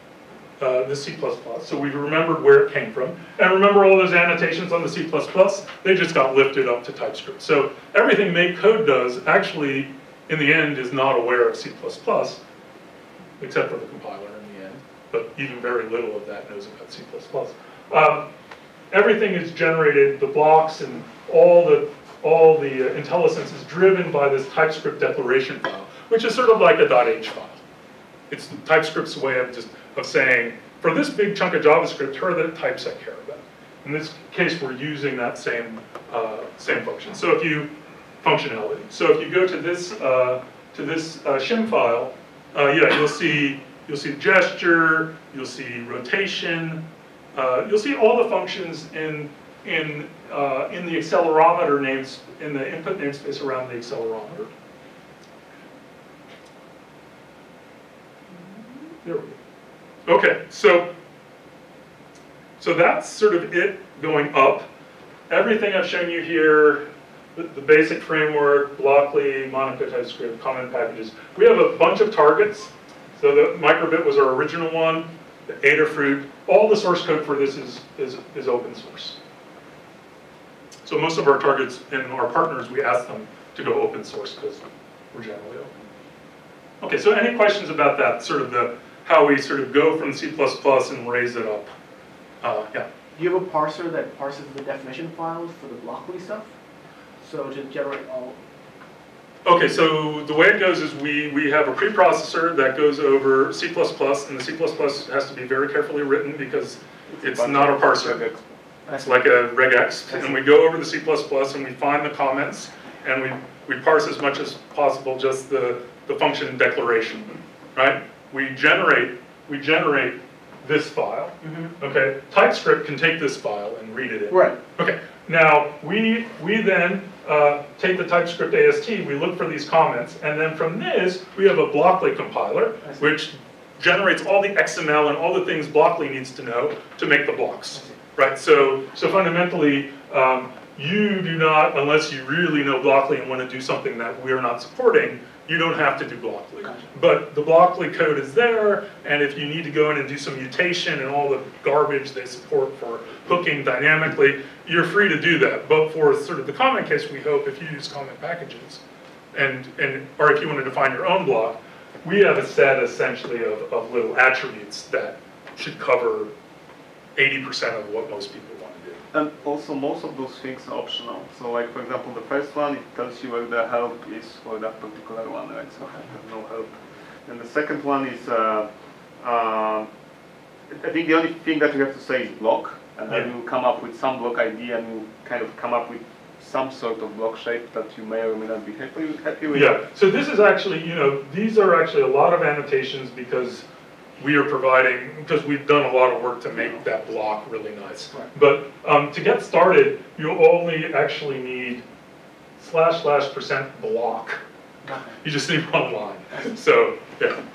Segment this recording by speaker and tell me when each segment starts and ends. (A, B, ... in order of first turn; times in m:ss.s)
0:00.6-0:12.4 A
0:13.4-0:18.3 A
0:18.9-0:27.6 A
0:28.3-0:54.5 A
0:59.0-0:59.4 A
1:00.0-1:00.9 A
1:02.6-1:04.7 A
1:05.3-1:19.2 A
1:20.8-1:25.8 A
1:26.8-1:31.7 A
1:32.4-1:32.9 A
1:33.2-1:36.5 B
1:37.2-1:38.4 B
1:39.4-1:48.2 A
1:47.1-1:48.4 C
1:48.9-1:49.3 B
1:49.0-2:38.8 A
1:50.1-1:50.3 B
2:04.3-2:04.6 B
2:39.3-2:46.3 A
2:47.2-2:49.0 A
2:49.1-2:59.9 C
3:00.7-3:09.8 C
3:09.5-3:13.6 A
3:14.2-3:21.8 A
3:22.6-3:24.4 A
3:24.8-3:25.2 B
3:25.2-3:27.4 A